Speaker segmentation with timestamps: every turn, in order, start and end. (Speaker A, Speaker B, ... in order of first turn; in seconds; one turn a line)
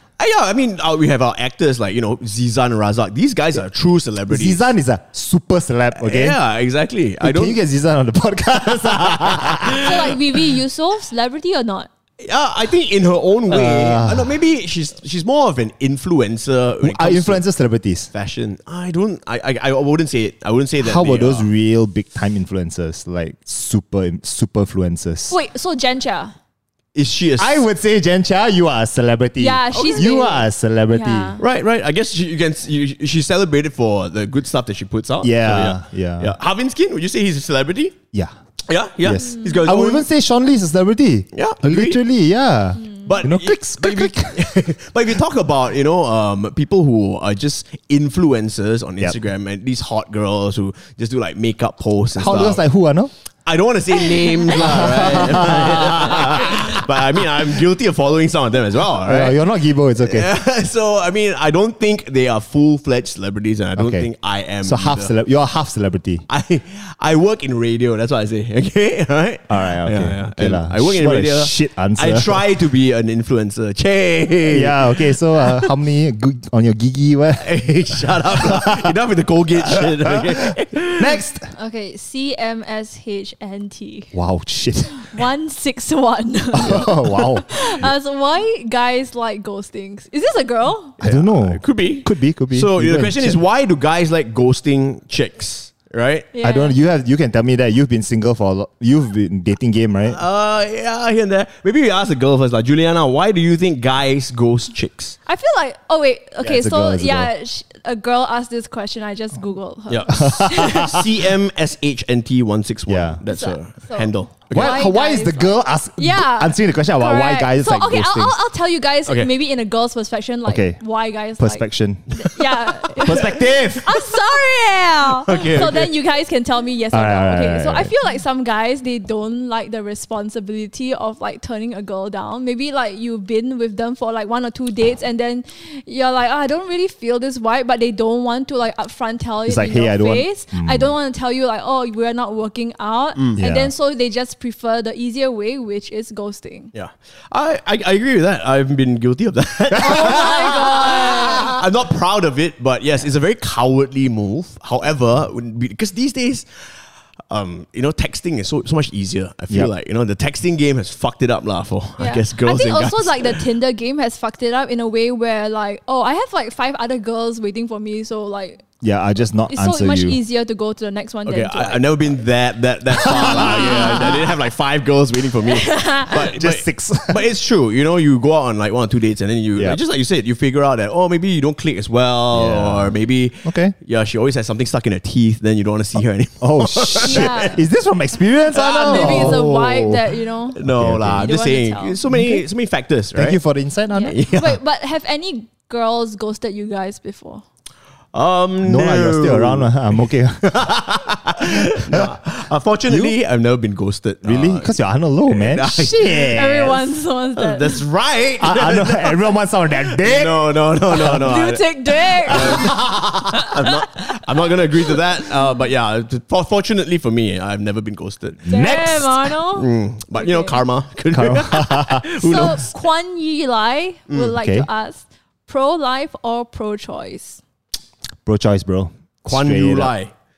Speaker A: 0.2-4.7
Speaker B: 4.3-6.4
Speaker A: 6.0-7.6
Speaker B: 7.2-10.2
Speaker A: 8.8-10.1
Speaker C: 9.8-11.9
Speaker A: 12.2-17.4
Speaker B: 13.5-14.4
Speaker B: 16.8-18.1
Speaker A: 18.1-21.5
Speaker B: 20.8-25.4
Speaker C: 25.3-26.3
Speaker A: 26.9-27.6
Speaker B: 27.4-31.4
Speaker C: 29.4-31.4
Speaker A: 29.7-30.1
Speaker A: 31.4-38.0
Speaker B: 35.2-36.4
Speaker A: 38.7-40.1
Speaker B: 39.0-44.7
Speaker C: 39.2-39.6
Speaker A: 41.3-42.0
Speaker A: 43.0-52.6
Speaker B: 52.2-53.1
Speaker A: 53.5-59.4
Speaker B: 54.5-57.3
Speaker B: 59.0-60.3
Speaker A: 60.0-65.1
Speaker B: 63.8-64.1
Speaker B: 64.6-66.2
Speaker A: 66.3-75.7
Speaker B: 69.5-72.5
Speaker B: 74.5-78.9
Speaker A: 77.4-81.2
Speaker B: 79.7-81.5
Speaker C: 81.5-84.1
Speaker B: 84.1-85.2
Speaker C: 84.9-91.0
Speaker B: 86.5-87.9
Speaker A: 91.0-96.3
Speaker B: 91.0-93.4
Speaker C: 96.3-96.8
Speaker B: 96.4-100.2
Speaker A: 100.1-105.2
Speaker C: 105.3-111.0
Speaker B: 106.4-107.3
Speaker A: 109.9-114.8
Speaker B: 110.1-111.2
Speaker B: 112.9-113.2
Speaker C: 113.3-146.7
Speaker B: 114.5-118.4
Speaker B: 120.5-120.8
Speaker B: 121.4-124.1
Speaker A: 125.2-125.9
Speaker B: 126.9-127.9
Speaker B: 139.4-140.9
Speaker B: 143.4-143.7
Speaker A: 146.7-156.5
Speaker C: 149.8-151.6
Speaker B: 149.9-150.4
Speaker A: 157.3-163.4
Speaker C: 162.0-168.6
Speaker B: 168.8-170.2
Speaker C: 169.5-172.1
Speaker A: 171.3-187.6
Speaker C: 173.0-174.2
Speaker B: 173.1-174.3
Speaker C: 175.5-176.2
Speaker B: 176.1-177.3
Speaker B: 182.3-183.8
Speaker B: 186.4-189.5
Speaker C: 187.0-187.6
Speaker A: 188.5-193.4
Speaker C: 188.6-190.6
Speaker B: 190.6-191.3
Speaker C: 191.2-192.1
Speaker B: 192.1-192.4
Speaker B: 193.1-194.2
Speaker C: 193.9-197.4
Speaker A: 194.1-194.6
Speaker A: 198.1-199.7
Speaker B: 198.6-200.7
Speaker A: 200.4-204.7
Speaker B: 201.4-202.2
Speaker B: 202.9-203.2
Speaker B: 204.2-206.8
Speaker A: 205.3-206.5
Speaker C: 206.2-207.8
Speaker A: 207.4-209.2
Speaker B: 208.4-211.3
Speaker A: 209.9-218.5
Speaker C: 210.9-212.8
Speaker B: 212.3-212.9
Speaker C: 213.3-214.2
Speaker B: 218.4-219.3
Speaker C: 218.5-220.6
Speaker A: 219.5-222.7
Speaker B: 221.1-222.6
Speaker C: 222.2-227.4
Speaker A: 224.1-224.3
Speaker B: 224.3-224.7
Speaker B: 228.2-229.9
Speaker A: 229.3-230.1